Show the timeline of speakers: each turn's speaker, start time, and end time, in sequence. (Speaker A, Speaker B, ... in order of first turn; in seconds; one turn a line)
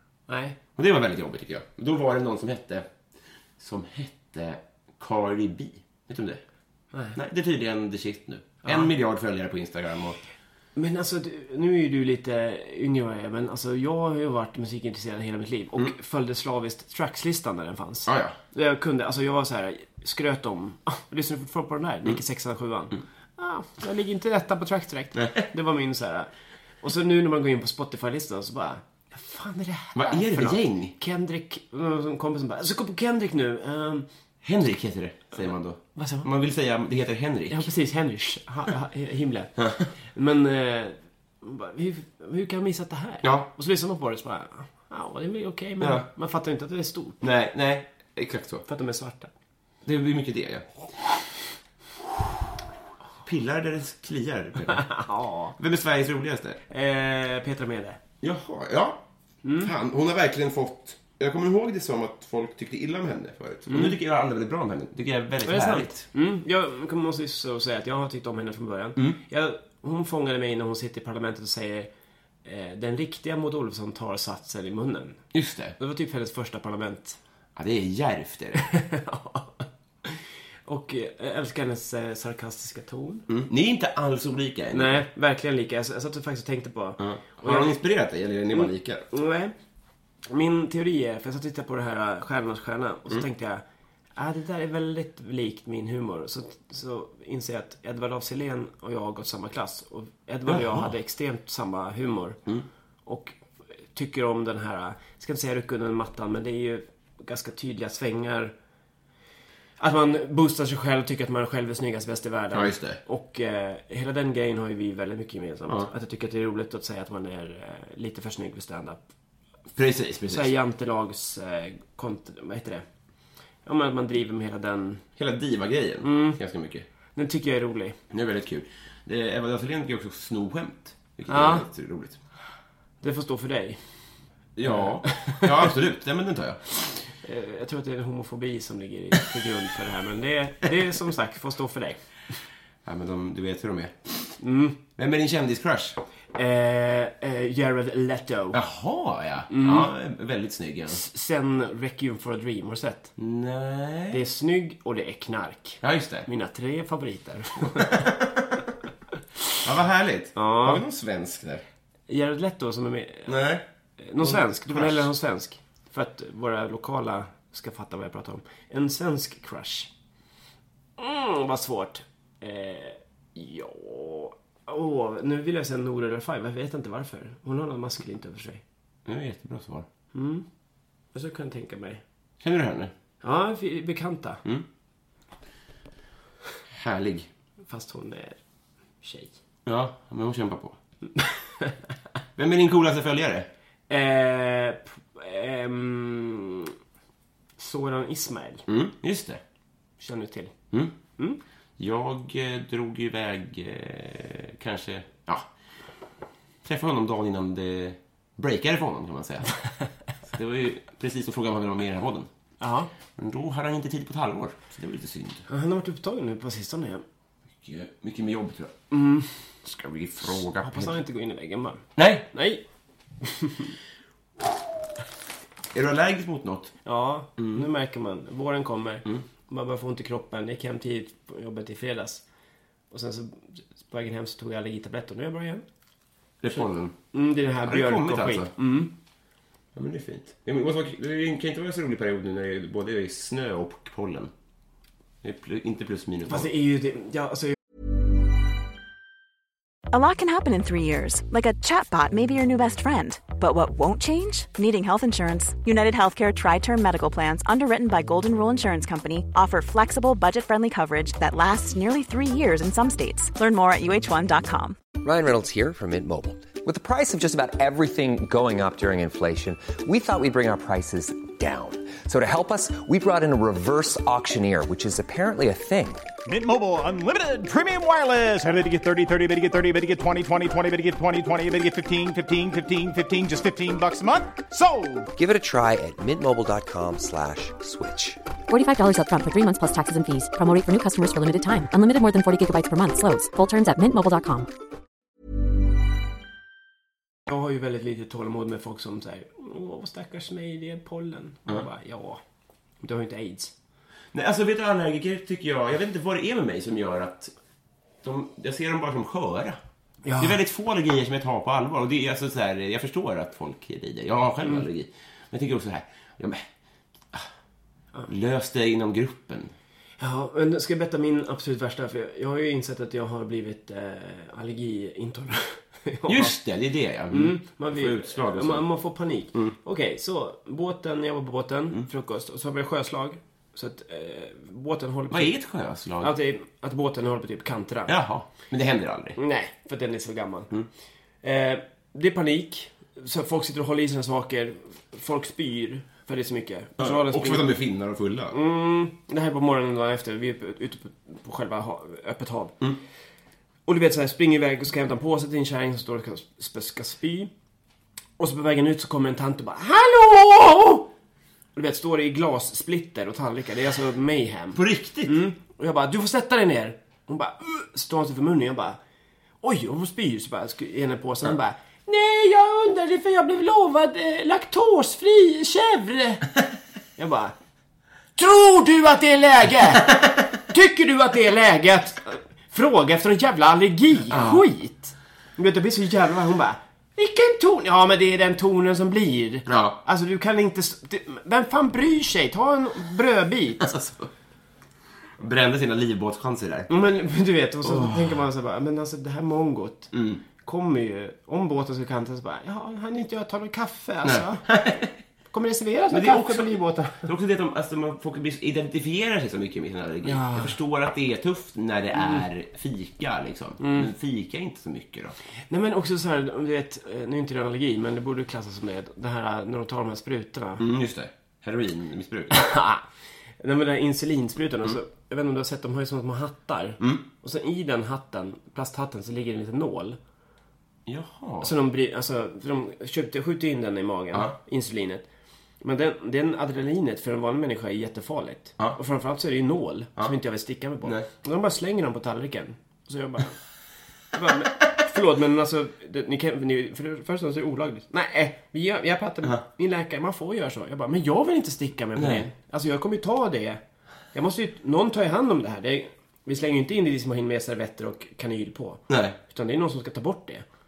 Speaker A: 0.3-0.6
Speaker B: 0.8-2.9
Speaker B: 3.6-6.4
Speaker B: 7.1-10.2
Speaker A: 10.7-26.3
Speaker B: 18.1-18.4
Speaker B: 25.1-25.4
Speaker A: 26.8-34.0
Speaker B: 29.9-30.9
Speaker B: 34.4-37.7
Speaker A: 35.9-36.3
Speaker A: 37.5-47.2
Speaker B: 39.6-39.9
Speaker B: 43.2-43.5
Speaker B: 45.8-46.1
Speaker B: 47.2-48.6
Speaker A: 48.6-49.3
Speaker B: 49.8-51.1
Speaker B: 53.2-54.9
Speaker A: 54.7-55.5
Speaker B: 55.6-56.6
Speaker A: 56.7-58.0
Speaker B: 58.2-59.0
Speaker A: 59.4-59.7
Speaker B: 59.6-66.0
Speaker A: 63.7-64.0
Speaker A: 65.4-71.9
Speaker A: 72.4-75.2
Speaker B: 75.3-75.7
Speaker A: 75.8-77.2
Speaker B: 77.5-78.6
Speaker A: 78.6-83.2
Speaker B: 83.3-85.0
Speaker A: 84.7-87.8
Speaker B: 87.0-89.0
Speaker A: 88.5-89.5
Speaker A: 90.2-93.6
Speaker A: 94.2-102.4
Speaker B: 100.5-100.9
Speaker A: 103.0-103.4
Speaker A: 103.9-108.5
Speaker A: 109.8-119.0
Speaker B: 112.5-113.0
Speaker B: 119.7-120.5
Speaker A: 120.3-122.8
Speaker A: 123.6-125.0
Speaker B: 125.2-126.8
Speaker A: 126.0-126.4
Speaker A: 127.1-128.0
Speaker B: 128.1-132.2
Speaker A: 131.3-131.7
Speaker A: 133.0-133.8
Speaker B: 134.6-136.6
Speaker A: 134.6-135.7
Speaker A: 137.1-142.0
Speaker B: 142.8-144.3
Speaker A: 144.4-144.8
Speaker B: 144.9-146.0
Speaker A: 146.3-148.6
Speaker B: 148.5-151.0
Speaker A: 149.5-149.9
Speaker A: 150.9-153.1
Speaker B: 153.2-154.2
Speaker A: 154.1-158.1
Speaker B: 155.8-156.3
Speaker B: 157.8-158.5
Speaker B: 159.6-161.6
Speaker A: 160.3-160.8
Speaker A: 162.1-163.3
Speaker B: 163.3-163.6
Speaker A: 164.0-169.9
Speaker B: 164.2-165.1
Speaker A: 171.0-178.6
Speaker B: 179.1-179.9
Speaker A: 180.1-180.4
Speaker A: 181.1-182.0
Speaker B: 182.4-182.9
Speaker A: 183.2-184.4
Speaker B: 186.7-187.3
Speaker A: 187.7-188.4
Speaker A: 189.0-189.4
Speaker B: 189.7-190.8
Speaker A: 191.2-191.8
Speaker B: 192.3-193.5
Speaker A: 193.9-196.7
Speaker A: 197.6-198.6
Speaker B: 198.7-199.4
Speaker A: 200.0-200.5
Speaker B: 201.8-205.5
Speaker B: 206.6-209.5
Speaker B: 210.2-212.3
Speaker A: 212.6-212.9
Speaker B: 213.2-215.4
Speaker A: 215.5-217.0
Speaker B: 217.6-218.8
Speaker A: 218.9-219.3
Speaker B: 219.6-220.9
Speaker A: 220.6-222.6
Speaker B: 222.0-222.2
Speaker A: 223.2-223.8
Speaker B: 225.7-226.8
Speaker A: 226.8-232.2
Speaker B: 227.4-227.7
Speaker A: 232.9-235.6
Speaker B: 236.4-236.9
Speaker A: 237.1-238.9
Speaker B: 237.6-238.5
Speaker B: 239.7-244.3
Speaker B: 245.2-246.5
Speaker A: 246.3-247.6
Speaker C: 249.9-264.8
Speaker D: 265.0-276.0
Speaker E: 276.2-285.1
Speaker D: 285.1-288.2
Speaker F: 288.5-294.5
Speaker A: 297.3-302.2
Speaker A: 302.8-303.5
Speaker B: 304.1-307.3
Speaker B: 308.0-309.6
Speaker A: 310.0-310.4
Speaker B: 310.2-316.5
Speaker B: 318.1-319.5
Speaker A: 320.0-326.4
Speaker B: 326.1-328.7
Speaker A: 327.1-335.4
Speaker B: 335.1-336.1
Speaker A: 336.0-337.9
Speaker B: 337.9-339.2
Speaker A: 339.2-340.5
Speaker A: 341.2-347.5
Speaker B: 346.8-348.4
Speaker A: 348.3-352.6
Speaker A: 353.7-357.3
Speaker A: 358.2-360.9
Speaker A: 361.5-368.8
Speaker B: 364.5-365.2
Speaker A: 369.4-376.3
Speaker A: 376.9-377.3
Speaker A: 378.1-393.7
Speaker B: 384.1-384.4
Speaker B: 389.4-389.8
Speaker B: 393.6-394.1
Speaker B: 395.2-396.7
Speaker A: 396.7-404.4
Speaker B: 397.6-398.2
Speaker B: 399.9-400.2
Speaker B: 404.0-404.9
Speaker A: 405.3-407.1
Speaker B: 405.9-415.2
Speaker A: 410.0-410.6
Speaker A: 413.6-413.9
Speaker A: 415.5-420.6
Speaker B: 420.6-422.5
Speaker A: 422.3-422.8
Speaker A: 423.4-430.0
Speaker B: 426.8-427.0
Speaker B: 430.9-431.5
Speaker A: 431.4-435.1
Speaker A: 435.6-443.4
Speaker B: 440.8-441.1
Speaker A: 444.1-453.6
Speaker B: 451.9-452.2
Speaker A: 454.1-460.4
Speaker B: 458.9-459.2